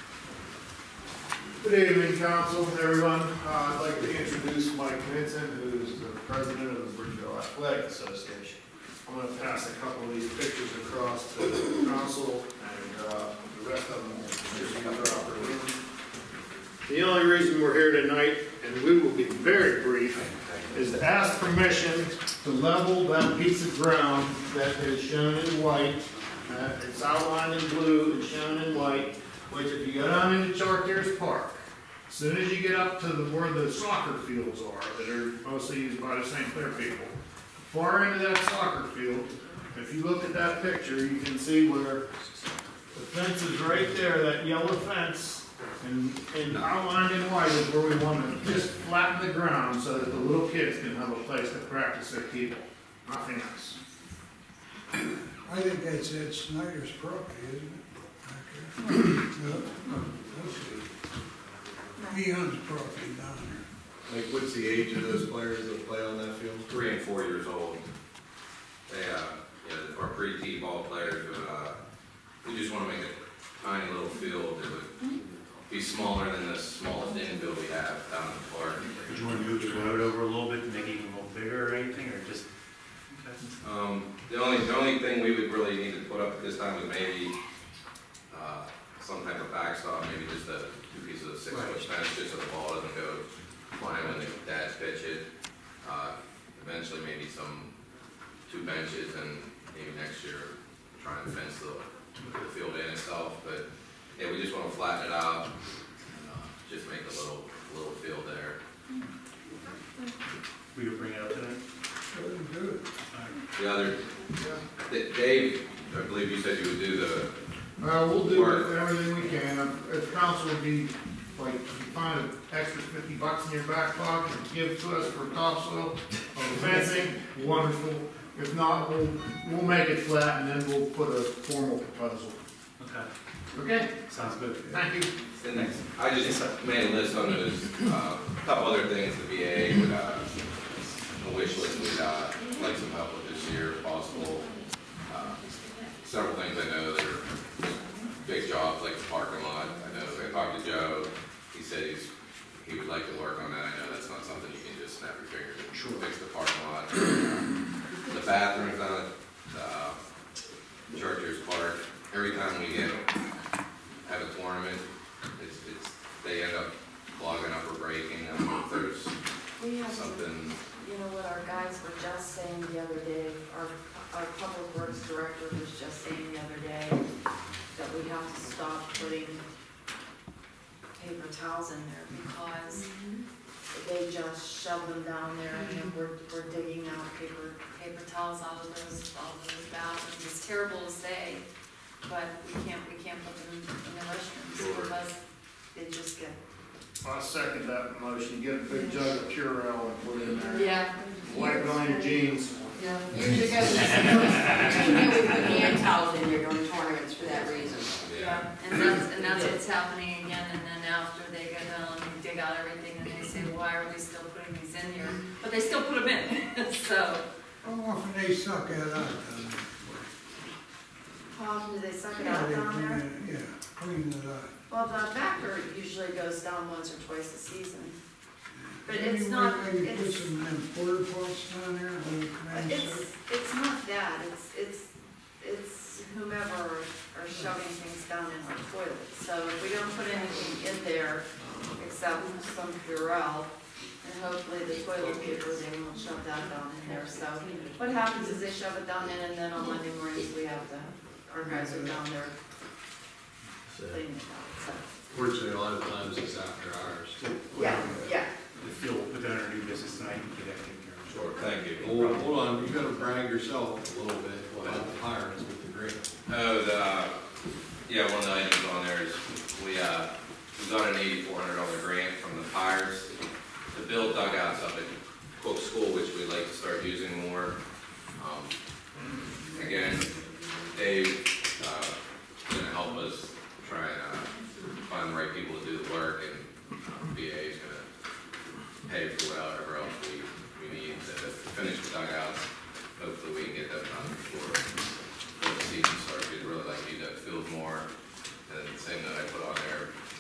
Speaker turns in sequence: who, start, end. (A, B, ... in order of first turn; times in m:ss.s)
0:01.6-0:15.8 A
0:16.9-0:42.1 A
0:20.2-0:20.7 B
0:39.4-0:39.8 C
0:42.9-0:53.8 A
0:55.4-1:00.8 D
1:02.0-1:02.2 C
1:02.0-1:03.6 D
1:04.1-1:06.8 E
1:06.7-1:07.8 B
1:08.9-1:11.8 B
1:12.4-1:19.8 B
1:19.1-1:22.5 F
1:23.1-1:23.5 F
1:23.6-1:27.3 B
1:28.3-1:35.3 B
1:31.5-1:31.8 F
1:35.8-1:37.7 B
1:38.5-1:43.6 B
1:44.2-1:45.5 B
1:46.1-1:48.6 B
1:50.7-1:51.6 F
1:52.1-1:52.8 D
1:53.1-1:53.4 F
1:53.6-1:54.0 B
1:54.8-1:57.3 B
1:57.8-2:12.4 A
1:58.2-1:58.7 B
2:12.8-2:13.1 F
2:13.5-2:14.0 A
2:14.1-2:14.8 F
2:14.6-2:15.1 A
2:15.4-2:20.4 B
2:15.5-2:17.1 F
2:21.2-2:40.0 B
2:35.7-2:36.1 F
2:40.9-2:43.1 B
2:44.0-2:44.8 B
2:45.4-2:49.1 B
2:49.6-2:57.0 C
2:49.8-2:50.6 B
2:57.7-2:59.4 C
3:01.0-3:02.9 C
3:03.7-3:11.4 C
3:12.0-3:16.4 C
3:14.5-3:14.9 B
3:17.0-3:23.7 A
3:20.5-3:22.0 C
3:22.8-3:27.9 G
3:23.1-3:25.9 C
3:27.6-3:28.5 B
3:28.1-3:37.2 C
3:37.6-3:40.1 D
3:41.3-3:43.0 C
3:42.1-3:44.5 D
3:44.7-3:48.0 C
3:48.6-3:53.1 D
3:48.8-3:50.3 C
3:52.5-4:12.4 C
4:13.8-4:14.9 C
4:15.1-4:17.2 E
4:17.2-4:23.3 F
4:17.6-4:18.3 C
4:21.1-4:22.0 B
4:21.8-4:26.2 E
4:24.6-4:24.9 F
4:26.3-4:27.2 B
4:27.9-4:33.1 B
4:33.7-4:37.6 B
4:38.2-4:38.5 B
4:39.5-4:40.2 B
4:40.7-4:42.0 B
4:42.5-4:44.3 B
4:44.8-4:47.9 B
4:48.8-4:54.7 B
4:55.4-4:57.9 B
4:58.5-4:59.9 B